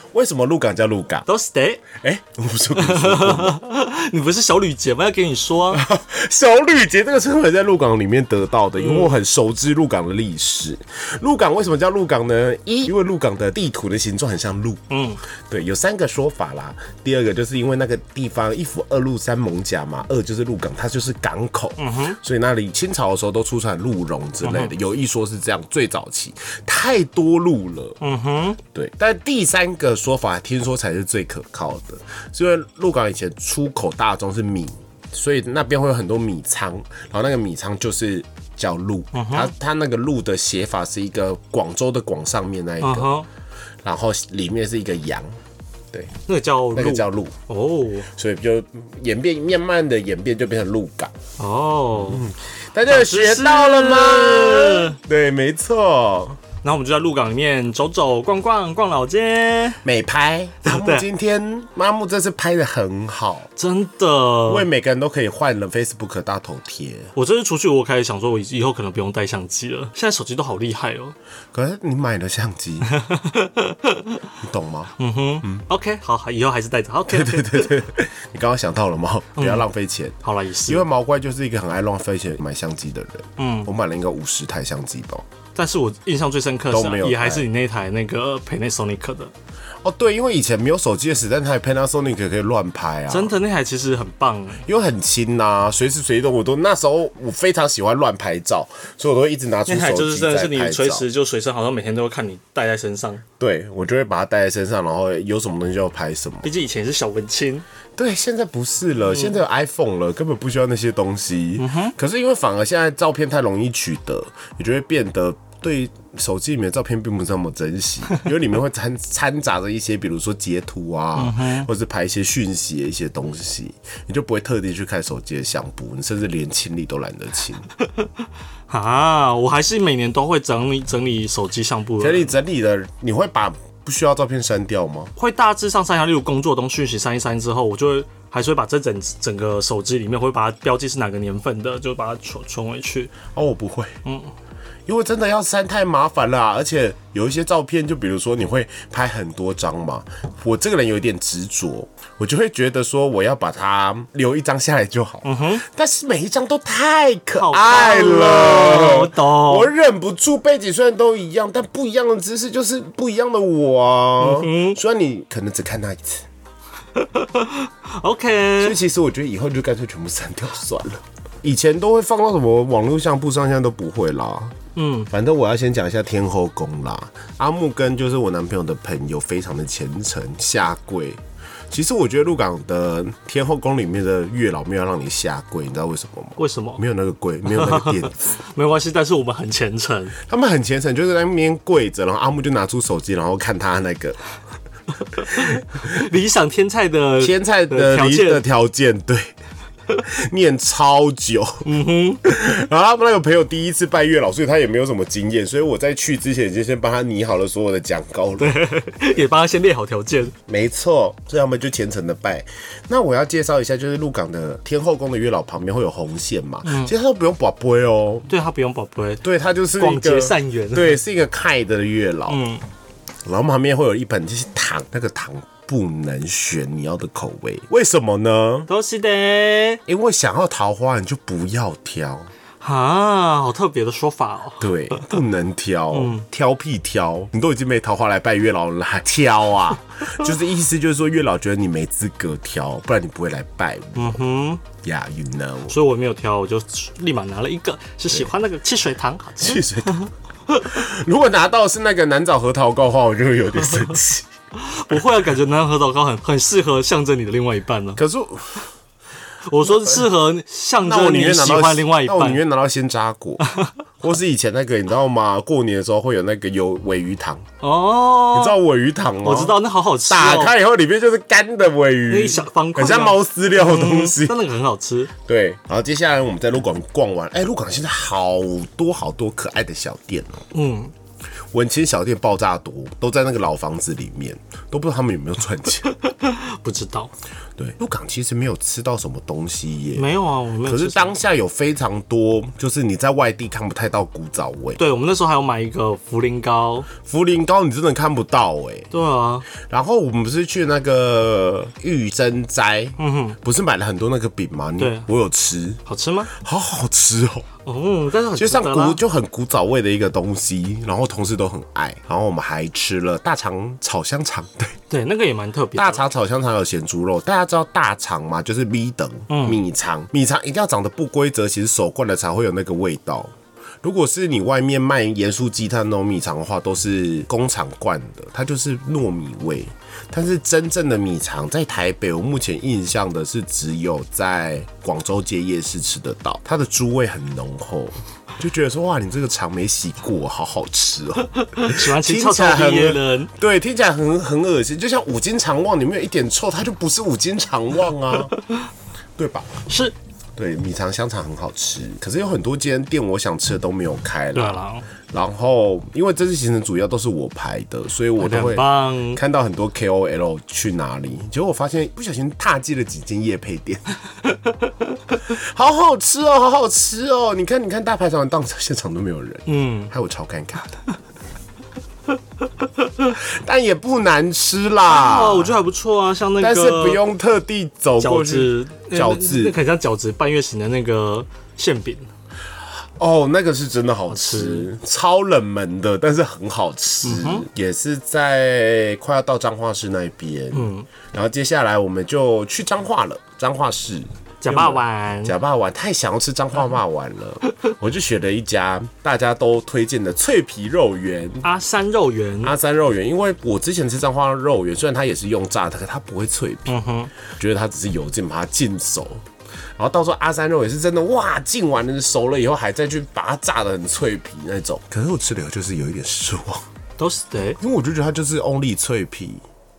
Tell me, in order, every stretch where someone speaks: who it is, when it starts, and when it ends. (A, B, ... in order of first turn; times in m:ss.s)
0:00.1-0:01.2 A
0:01.3-0:01.8 B
0:01.9-0:03.6 A
0:02.8-0:05.8 B
0:05.7-0:14.8 A
0:08.8-0:09.1 B
0:14.9-0:15.2 B
0:15.5-0:28.0 A
0:21.8-0:22.2 B
0:24.4-0:24.7 B
0:28.0-0:28.6 B
0:28.7-0:43.1 A
0:39.1-0:39.5 B
0:42.8-0:43.3 B
0:43.8-0:45.4 A
0:46.2-0:48.1 B
0:46.7-0:47.3 A
0:48.1-0:51.1 A
0:51.4-0:52.2 B
0:51.9-0:56.4 A
0:52.9-0:55.0 B
0:56.6-0:59.8 B
0:59.8-1:03.5 A
1:00.6-1:01.0 B
1:03.6-1:04.6 B
1:04.5-1:07.1 A
1:07.1-1:11.1 B
1:11.5-1:12.9 A
1:12.8-1:14.2 B
1:14.4-1:14.9 A
1:15.0-1:17.7 B
1:17.1-1:25.2 A
1:19.4-1:19.6 B
1:20.2-1:20.8 B
1:23.4-1:23.7 B
1:25.5-1:29.3 B
1:26.7-1:27.4 A
1:29.8-1:33.3 A
1:33.1-1:34.6 B
1:34.6-1:41.0 A
1:39.7-1:43.2 B
1:43.4-1:46.5 A
1:46.4-1:47.6 B
1:48.0-2:07.6 A
1:51.6-1:51.9 B
2:01.2-2:01.7 B
2:08.7-2:12.3 B
2:12.0-2:15.1 A
2:15.2-2:23.2 B
2:23.3-2:24.0 A
2:24.0-2:24.3 B
2:24.9-2:46.2 A
2:35.2-2:35.6 B
2:37.4-2:39.7 B
2:44.2-2:44.8 B
2:46.9-2:48.8 B
2:48.6-2:54.6 A
2:54.8-2:55.1 B
2:55.1-3:08.3 A
3:06.4-3:06.8 B
3:07.5-3:10.1 B
3:10.2-3:14.2 A
3:15.1-3:18.4 B
3:15.3-3:15.6 A
3:17.2-3:19.3 A
3:20.0-3:21.6 A
3:21.6-3:22.2 B
3:22.2-3:28.6 A
3:28.4-3:30.3 B
3:30.5-3:38.3 A
3:36.6-3:36.9 B
3:38.3-3:39.2 B
3:39.2-3:42.4 A
3:39.8-3:41.0 B
3:42.3-3:42.6 B
3:43.2-3:48.7 A
3:48.7-3:49.8 B
3:49.9-3:52.3 A
3:52.6-3:55.1 B
3:54.6-4:04.2 A
3:55.9-3:56.2 B
4:04.0-4:04.6 B
4:04.8-4:05.8 A
4:05.7-4:10.6 B
4:09.4-4:10.1 A
4:10.6-4:14.3 A
4:14.5-4:18.0 B
4:18.0-4:18.6 A
4:19.4-4:22.4 B
4:19.6-4:20.0 A
4:20.8-4:23.4 A
4:23.4-4:23.7 B
4:24.0-4:27.4 A
4:27.6-4:28.6 B
4:28.3-4:34.4 A
4:29.2-4:30.5 B
4:32.1-4:35.1 B
4:35.2-4:40.5 A
4:40.5-4:40.9 B
4:41.5-4:45.9 A
4:45.9-4:47.1 B
4:47.6-4:50.1 A
4:49.9-4:51.1 B
4:50.6-4:54.8 A
4:54.8-4:56.9 B
4:57.0-4:58.9 A
4:58.9-4:59.5 B
4:59.6-5:07.5 A
5:03.0-5:03.4 B
5:04.8-5:05.1 B
5:05.8-5:06.3 B
5:07.6-5:09.0 B
5:08.4-5:14.8 A
5:14.9-5:16.0 B
5:15.7-5:48.3 A
5:19.3-5:19.6 B
5:41.4-5:43.3 B
5:48.3-5:48.6 B
5:49.2-5:49.5 A
5:49.7-5:49.9 B
5:50.4-6:03.8 A
5:54.3-5:54.8 B
5:58.2-5:59.2 B
6:04.2-6:04.7 B
6:05.2-6:10.8 A
6:09.5-6:09.9 B
6:12.6-6:13.1 B
6:13.1-6:15.6 A
6:14.8-6:17.0 B
6:16.4-6:19.6 A
6:18.0-6:22.1 B
6:23.0-6:41.4 A
6:24.1-6:24.7 B
6:27.0-6:27.4 B
6:30.5-6:30.9 B
6:34.4-6:35.4 B
6:41.4-6:42.5 B
6:42.4-6:46.7 A
6:46.7-6:47.1 B
6:47.3-6:49.2 A
6:49.8-6:56.7 A
6:57.0-6:57.6 B
6:57.6-6:59.4 A